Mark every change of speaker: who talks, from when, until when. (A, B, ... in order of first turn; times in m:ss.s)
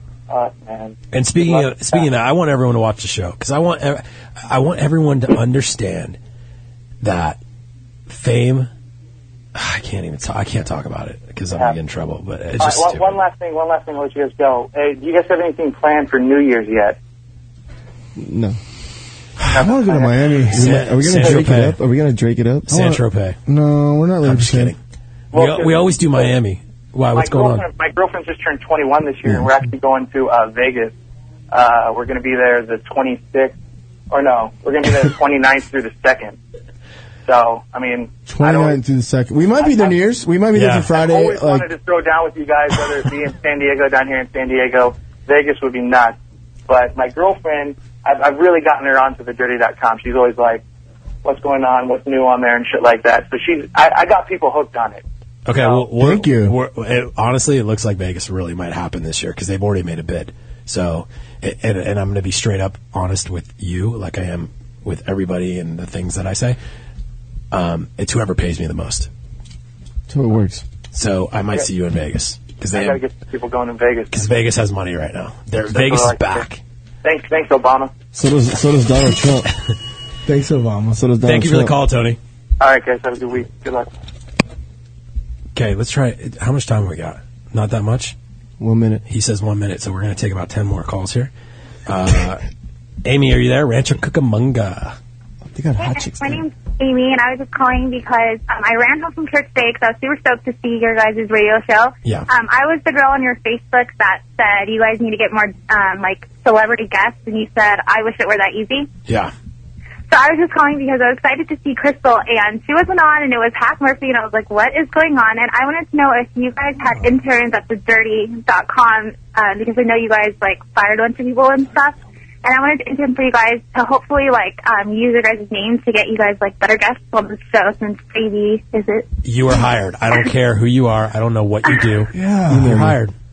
0:00.3-0:02.1 A
0:01.1-0:06.2 B
0:07.0-0:07.4 B
0:08.1-0:08.7 B
0:09.5-0:13.2 B
0:12.6-0:17.0 A
0:18.2-0:18.6 C
0:19.4-0:20.8 D
0:19.5-0:20.3 A
0:20.5-0:21.8 B
0:20.5-0:22.7 C
0:22.7-0:23.4 B
0:22.7-0:24.7 D
0:24.2-0:24.8 B
0:25.3-0:26.3 A
0:25.3-0:27.6 B
0:27.1-0:30.9 A
0:31.5-0:33.6 A
0:34.1-0:36.4 A
0:37.2-0:38.8 A
0:38.2-0:41.7 D
0:39.6-0:40.0 A
0:40.5-0:40.9 B
0:40.9-0:46.2 A
0:46.7-0:50.6 A
0:51.2-0:55.0 A
0:55.4-1:06.6 B
0:55.5-0:55.8 A
0:56.0-0:56.5 D
1:07.5-1:09.1 B
1:10.1-1:10.6 C
1:10.9-1:13.0 B
1:12.7-1:14.3 A
1:14.1-1:16.6 B
1:15.7-1:16.4 A
1:17.0-1:17.9 A
1:18.1-1:19.5 C
1:20.2-1:21.0 D
1:21.0-1:21.7 C
1:21.2-1:22.2 B
1:22.6-1:23.9 A
1:25.5-1:28.1 B
1:28.6-1:29.0 C
1:29.1-1:31.3 B
1:31.9-1:32.4 B
1:33.0-1:35.0 B
1:35.5-1:36.4 C
1:35.8-1:48.9 E
1:49.1-1:49.3 B
1:50.1-2:09.1 E
2:09.2-2:13.1 B
2:12.1-2:12.9 D
2:12.5-2:13.0 C